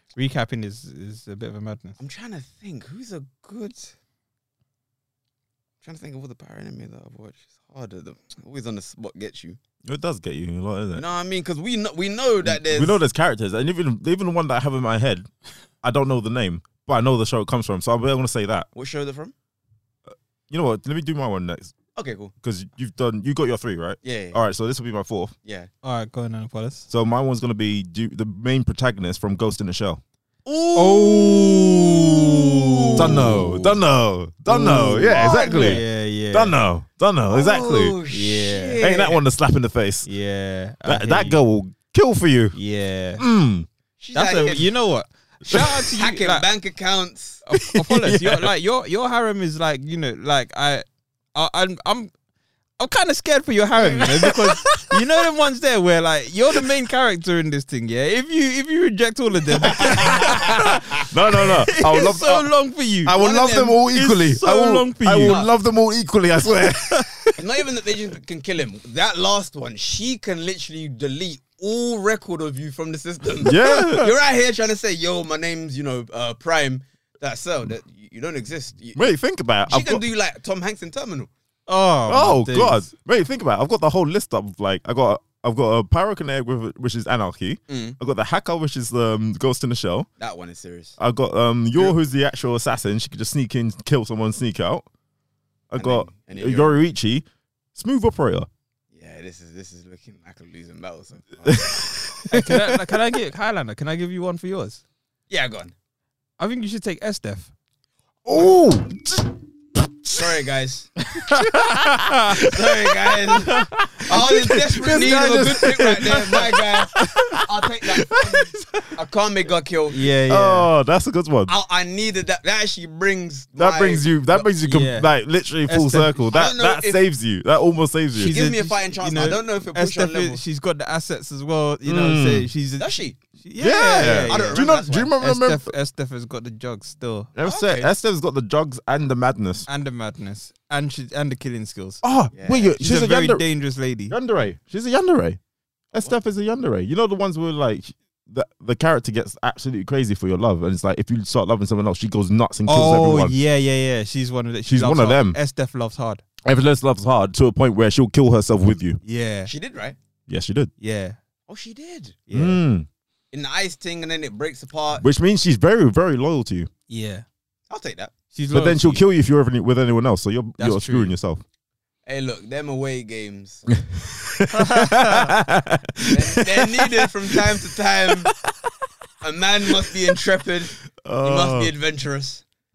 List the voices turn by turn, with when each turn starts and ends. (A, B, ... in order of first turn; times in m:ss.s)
0:00.2-0:02.0 A
0:02.0-0:03.9 B
0:05.8-0:09.6 B
0:09.8-0:11.0 C
0:10.9-0:13.0 B
0:12.4-0:15.3 C
0:15.8-0:18.7 C
0:18.7-0:19.3 B
0:20.1-0:21.7 C
0:22.0-0:22.3 B
0:22.4-0:25.3 C
0:24.0-0:24.4 B
0:25.4-0:25.7 B
0:25.8-0:26.9 A
0:26.9-0:30.0 C
0:30.4-0:33.8 B
0:30.7-0:33.4 A
0:33.0-0:37.9 C
0:34.5-0:36.6 A
0:35.0-0:35.8 B
0:37.3-0:39.2 B
0:38.1-0:38.8 A
0:38.8-0:40.1 C
0:40.0-0:41.4 A
0:40.8-0:42.6 C
0:42.5-0:43.2 A
0:43.2-0:43.7 C
0:44.0-0:44.7 B
0:44.1-0:46.4 A
0:45.4-0:47.4 B
0:47.4-0:52.1 A
0:47.6-0:48.5 C
0:52.8-1:03.2 A
0:53.8-0:55.0 C
0:59.7-1:00.6 B
0:59.7-1:02.5 C
1:03.0-1:07.4 C
1:03.2-1:03.8 B
1:03.9-1:05.4 A
1:05.2-1:05.5 B
1:06.8-1:07.3 A
1:07.4-1:19.1 B
1:13.4-1:14.1 C
1:13.5-1:14.1 A
1:18.9-1:20.0 C
1:19.7-1:21.3 B
1:21.7-1:22.9 A
1:22.1-1:30.1 C
1:27.7-1:28.0 B
1:30.2-1:31.0 B
1:31.0-1:34.8 C
1:35.7-1:38.5 C
1:35.8-1:36.8 B
1:38.9-1:41.9 B
1:41.4-1:42.8 C
1:42.3-1:44.8 A
1:45.3-1:45.7 B
1:46.4-1:47.5 A
1:48.2-1:50.3 C
1:50.1-1:50.9 B
1:51.1-1:52.4 A
1:51.2-1:58.6 C
1:52.3-2:00.1 B
1:53.3-1:53.8 A
1:56.9-1:57.4 A
1:59.9-2:00.7 A
2:00.3-2:01.5 C
2:01.5-2:04.5 B
2:03.6-2:08.3 C
2:04.6-2:05.1 A
2:05.6-2:06.2 A
2:06.3-2:07.0 B
2:08.1-2:10.4 B
2:08.2-2:17.3 A
2:11.8-2:12.5 C
2:12.8-2:13.2 B
2:13.6-2:15.7 C
2:14.0-2:15.1 B
2:17.4-2:19.7 C
2:17.4-2:17.9 B
2:19.7-2:22.0 A
2:22.0-2:23.4 C
2:22.3-2:22.8 B
2:22.8-2:24.1 A
2:24.1-2:25.4 C
2:25.9-2:33.3 C
2:32.7-2:36.2 A
2:34.6-2:35.4 C
2:36.4-2:39.0 C
2:39.0-2:39.5 A
2:39.5-2:40.0 B
2:40.3-2:40.7 C
2:40.8-2:41.2 A
2:41.5-2:42.2 B
2:42.3-2:42.6 A
2:42.3-2:42.9 C
2:43.3-2:45.0 B
2:45.0-2:46.7 C
2:46.9-2:47.2 A
2:47.7-2:48.1 B
2:48.3-2:49.0 A
2:48.5-2:51.4 C
2:50.6-2:51.1 A
2:52.0-2:53.7 B
2:53.7-2:57.4 C
2:54.5-2:55.3 A
2:56.1-2:58.3 B
2:59.2-3:02.4 B
3:01.0-3:01.7 C